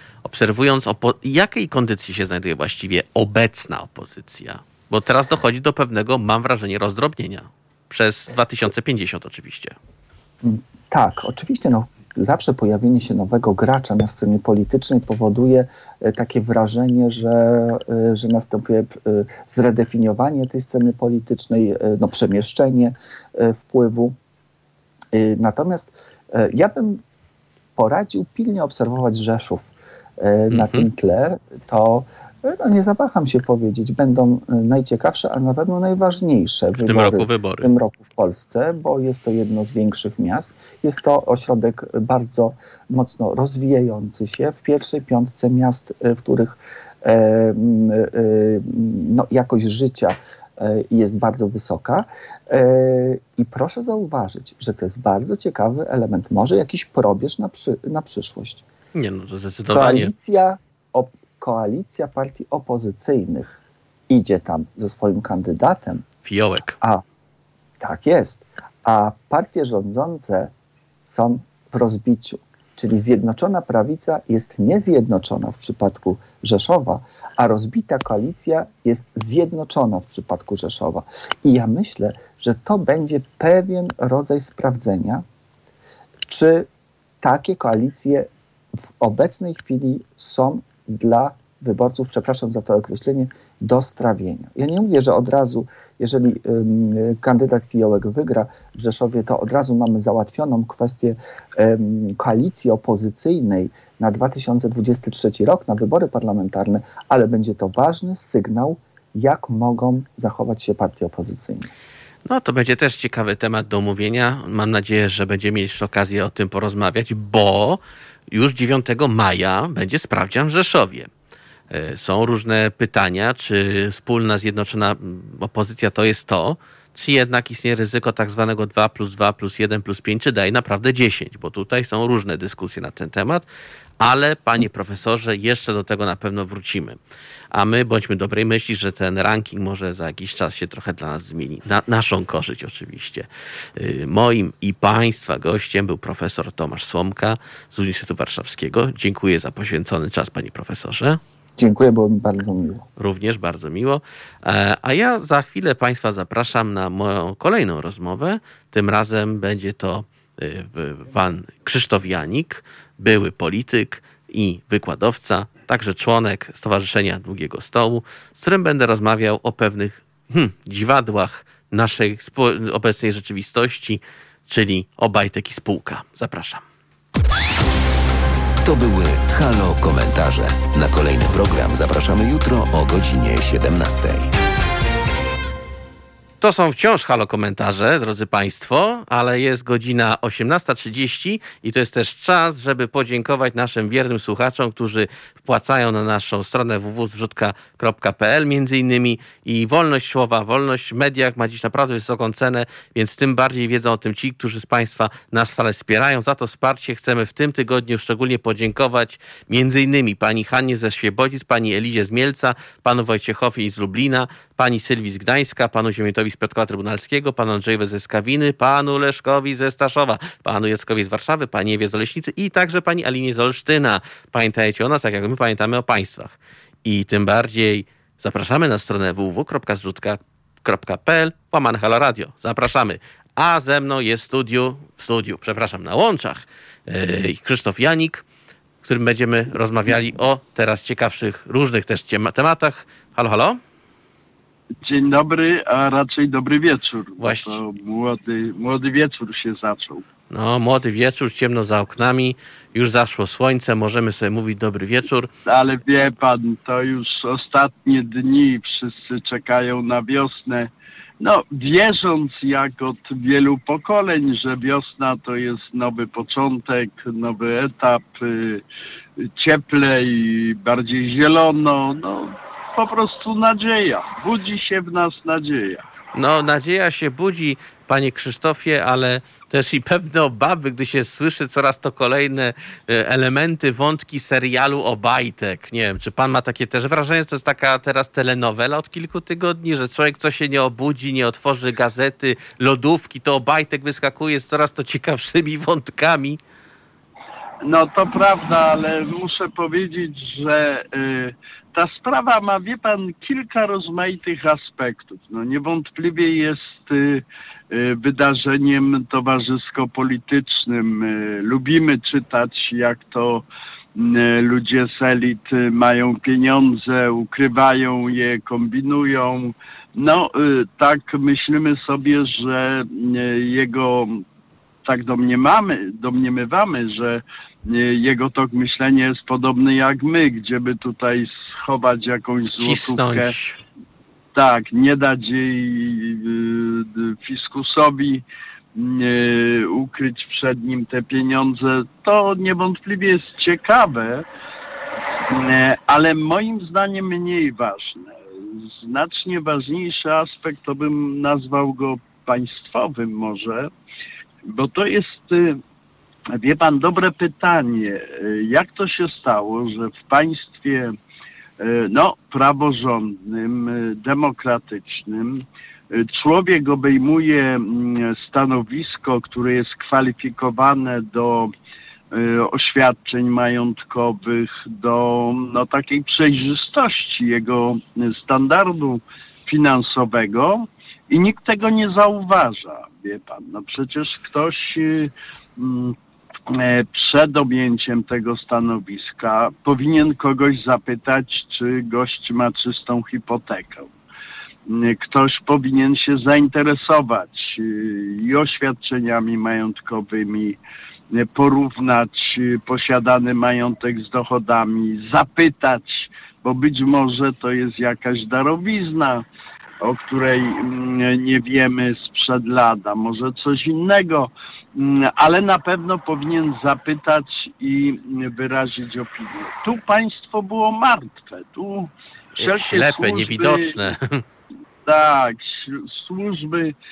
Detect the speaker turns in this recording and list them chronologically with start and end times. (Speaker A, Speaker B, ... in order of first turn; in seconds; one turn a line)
Speaker A: 0.2-9.8
Speaker B: 10.4-24.1
Speaker B: 25.1-27.0
Speaker B: 27.8-58.6
Speaker A: 30.5-30.9
Speaker A: 36.8-37.7
Speaker A: 59.0-60.1
Speaker B: 59.7-66.1
Speaker A: 66.2-66.8
Speaker B: 67.8-70.5
Speaker B: 71.0-85.2
Speaker B: 86.3-86.7
Speaker B: 87.2-88.3
Speaker B: 89.0-111.7
Speaker A: 112.2-121.1
Speaker A: 121.7-133.5
Speaker A: 134.0-137.0
Speaker A: 137.5-151.2
Speaker B: 151.6-152.9
Speaker A: 153.0-176.6
Speaker C: 178.6-184.3
Speaker A: 186.4-238.2
Speaker A: 238.8-243.6
Speaker D: 244.8-250.1
Speaker A: 247.2-247.6
Speaker A: 250.3-255.3
Speaker D: 255.5-268.6
Speaker D: 269.3-275.9
Speaker A: 276.1-296.4
Speaker D: 297.6-324.2
Speaker D: 324.9-333.3
Speaker A: 332.6-333.6
Speaker D: 334.3-338.2
Speaker D: 338.8-344.3
Speaker D: 345.3-353.7
Speaker D: 354.4-355.6
Speaker D: 356.3-360.9
Speaker D: 361.6-371.5
Speaker D: 372.1-386.0
Speaker D: 386.5-393.9
Speaker D: 394.7-400.6
Speaker D: 401.1-409.2
Speaker D: 409.8-423.8
Speaker A: 422.4-424.2
Speaker D: 424.9-426.8